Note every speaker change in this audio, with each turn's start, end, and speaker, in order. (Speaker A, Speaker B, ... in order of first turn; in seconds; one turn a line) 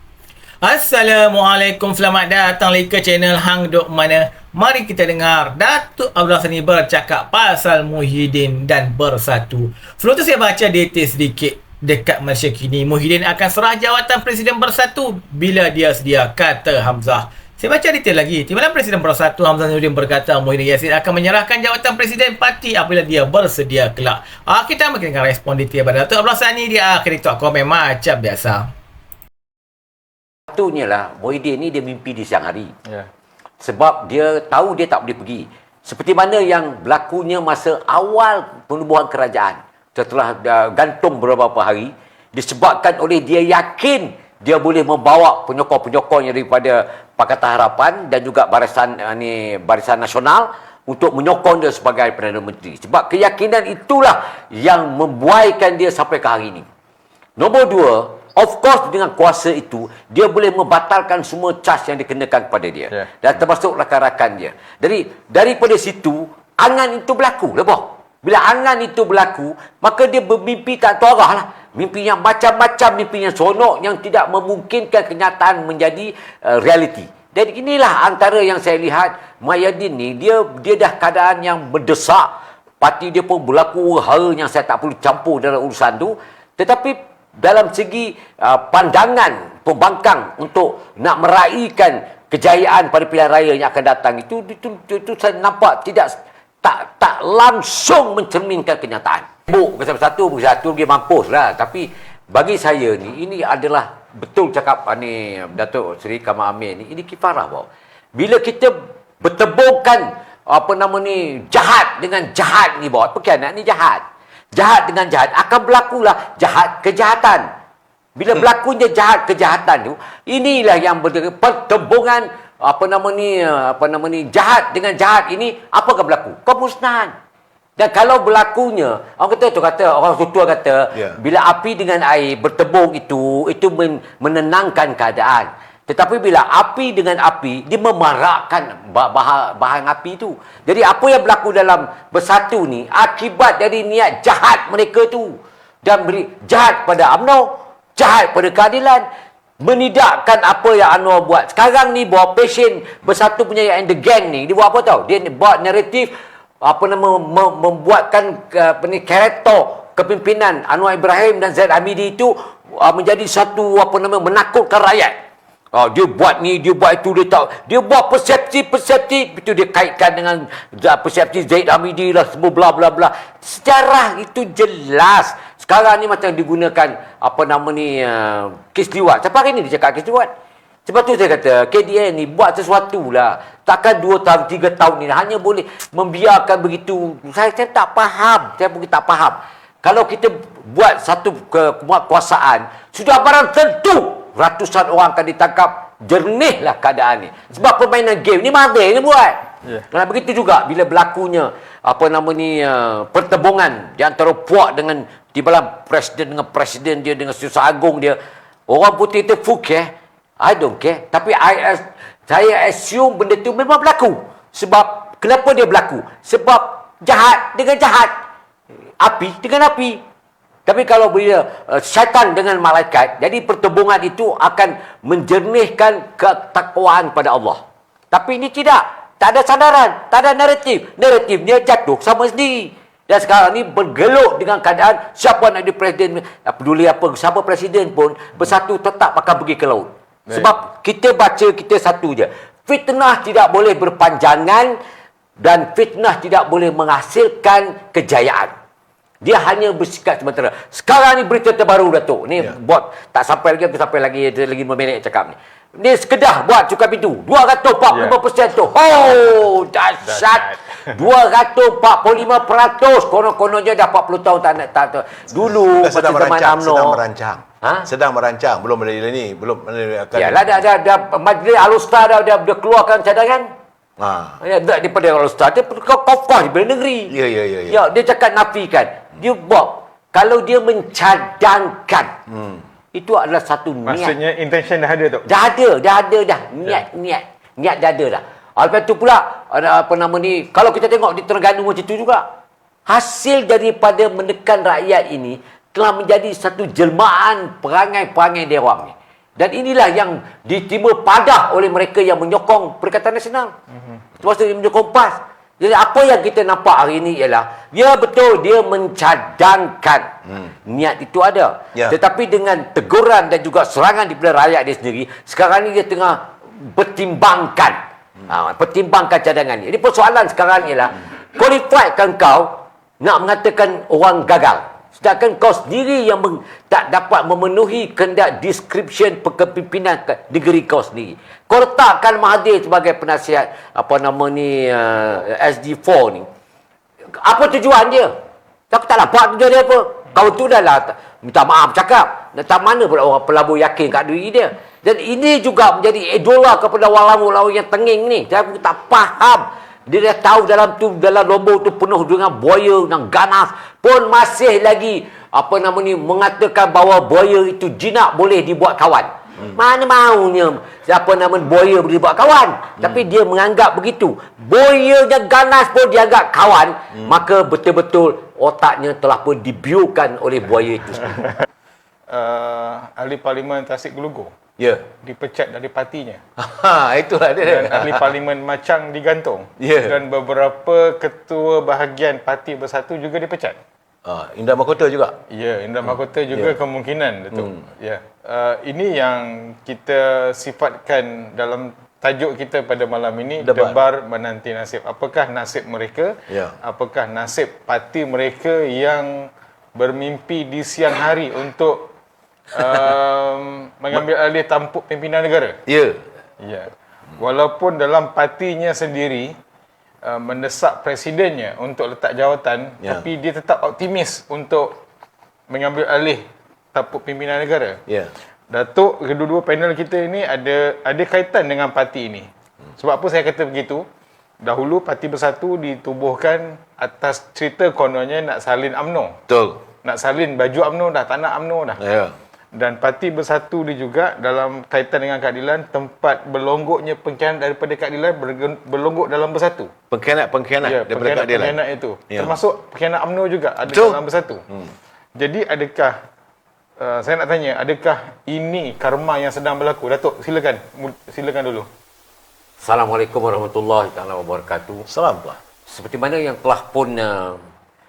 Speaker A: 0.6-28.7
Speaker B: 30.5-32.7
Speaker B: 33.6-56.6
Speaker B: 57.4-117.5
Speaker B: 118.2-127.1
Speaker B: 127.8-149.0
Speaker C: 130.9-131.2
Speaker B: 149.6-165.1
Speaker B: 165.7-180.3
Speaker B: 180.8-208.2
Speaker B: 208.7-218.1
Speaker B: 219.0-220.0
Speaker B: 220.7-244.8
Speaker B: 245.4-248.5
Speaker B: 249.2-267.0
Speaker D: 257.9-258.2
Speaker D: 260.0-260.9
Speaker C: 265.4-270.6
Speaker B: 267.6-267.9
Speaker B: 270.1-273.5
Speaker C: 274.0-274.4
Speaker B: 274.4-277.1
Speaker C: 277.1-277.8
Speaker B: 277.7-282.1
Speaker C: 282.3-282.6
Speaker B: 282.9-284.2
Speaker D: 283.9-285.2
Speaker B: 285.2-292.2
Speaker B: 292.9-303.5
Speaker B: 304.2-310.1
Speaker B: 310.6-317.8
Speaker B: 318.3-336.3
Speaker B: 337.2-338.1
Speaker B: 338.7-371.3
Speaker D: 372.1-374.3
Speaker C: 374.6-374.8
Speaker D: 375.0-376.2
Speaker C: 376.4-378.1
Speaker D: 377.4-383.6
Speaker C: 379.6-380.0
Speaker C: 384.1-385.2
Speaker D: 385.3-401.9
Speaker C: 385.9-386.6
Speaker C: 387.3-387.6
Speaker C: 393.4-393.8
Speaker C: 396.3-396.5
Speaker D: 402.5-405.6
Speaker C: 405.6-406.0
Speaker D: 406.4-409.3
Speaker D: 410.0-414.8
Speaker D: 415.5-417.8
Speaker C: 417.9-418.1
Speaker D: 418.5-423.8
Speaker D: 424.4-429.2
Speaker C: 429.3-429.6
Speaker D: 429.8-431.8
Speaker C: 431.8-432.1
Speaker D: 432.5-439.7
Speaker C: 439.9-441.6
Speaker D: 440.6-444.4
Speaker C: 442.1-442.4
Speaker C: 443.6-444.7
Speaker D: 445.1-446.0
Speaker D: 446.8-451.7
Speaker B: 452.6-454.9
Speaker C: 454.9-455.4
Speaker B: 455.7-457.4